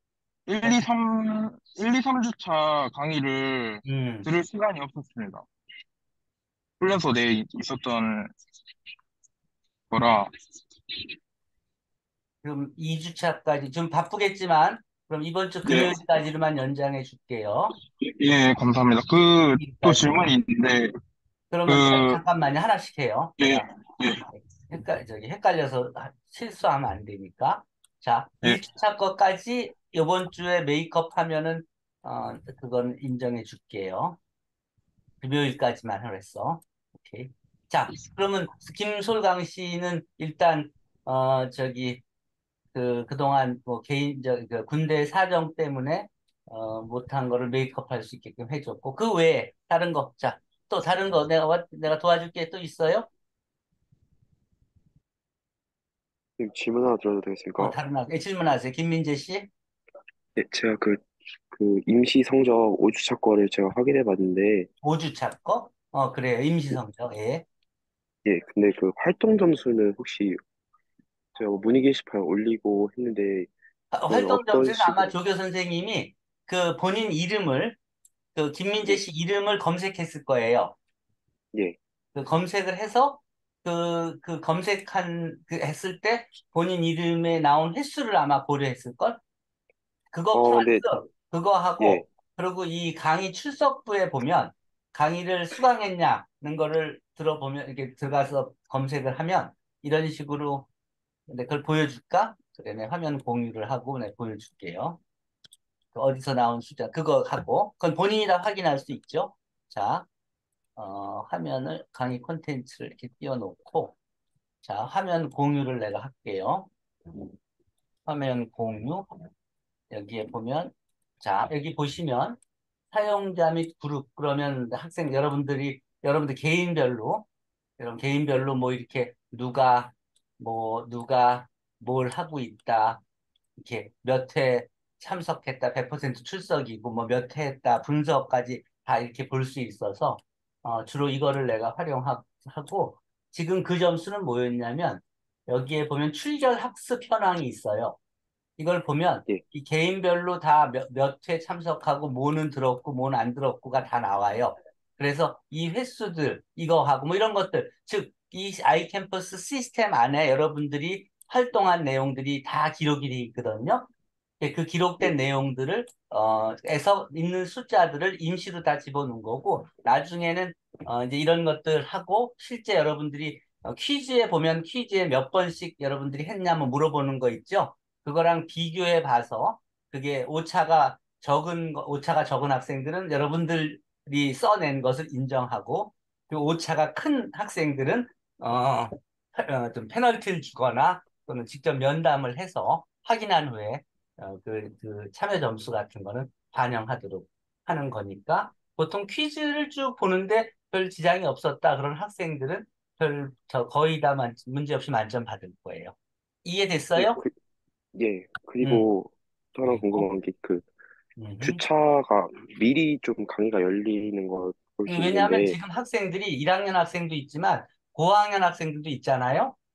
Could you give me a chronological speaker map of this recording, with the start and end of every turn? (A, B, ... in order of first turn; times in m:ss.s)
0:00.5-0:05.4 A
0:03.8-0:04.3 B
0:06.8-0:08.3 A
0:09.9-0:10.3 A
0:12.4-0:17.8 B
0:15.6-0:15.9 A
0:18.0-0:20.9 A
0:19.6-0:20.3 B
0:21.5-0:23.6 B
0:21.7-0:22.2 A
0:23.4-0:24.2 A
0:24.3-0:34.2 B
0:35.2-0:42.0 B
0:42.7-0:53.1 B
0:56.4-0:57.8 C
0:57.6-0:59.5 B
1:00.4-1:04.7 C
1:04.8-1:07.4 B
1:08.2-1:10.4 C
1:11.4-1:13.5 C
1:13.9-1:17.8 B
1:14.1-1:15.2 C
1:18.3-1:20.8 B
1:22.1-1:29.2 B
1:30.1-1:40.7 B
1:30.3-1:31.0 C
1:31.8-1:32.1 C
1:41.3-1:45.0 B
1:45.9-1:50.1 B
1:50.8-1:53.9 B
1:54.6-1:57.3 B
1:58.1-1:59.1 B
1:59.9-2:02.4 B
2:02.9-2:07.2 B
2:07.8-2:13.0 B
2:13.6-2:28.0 B
2:28.6-2:43.9 B
2:44.4-3:27.2 B
3:27.0-3:27.3 C
3:27.9-3:30.7 C
3:28.6-3:28.9 B
3:29.6-3:30.1 B
3:31.2-3:31.6 B
3:31.4-3:35.6 C
3:34.9-3:39.6 B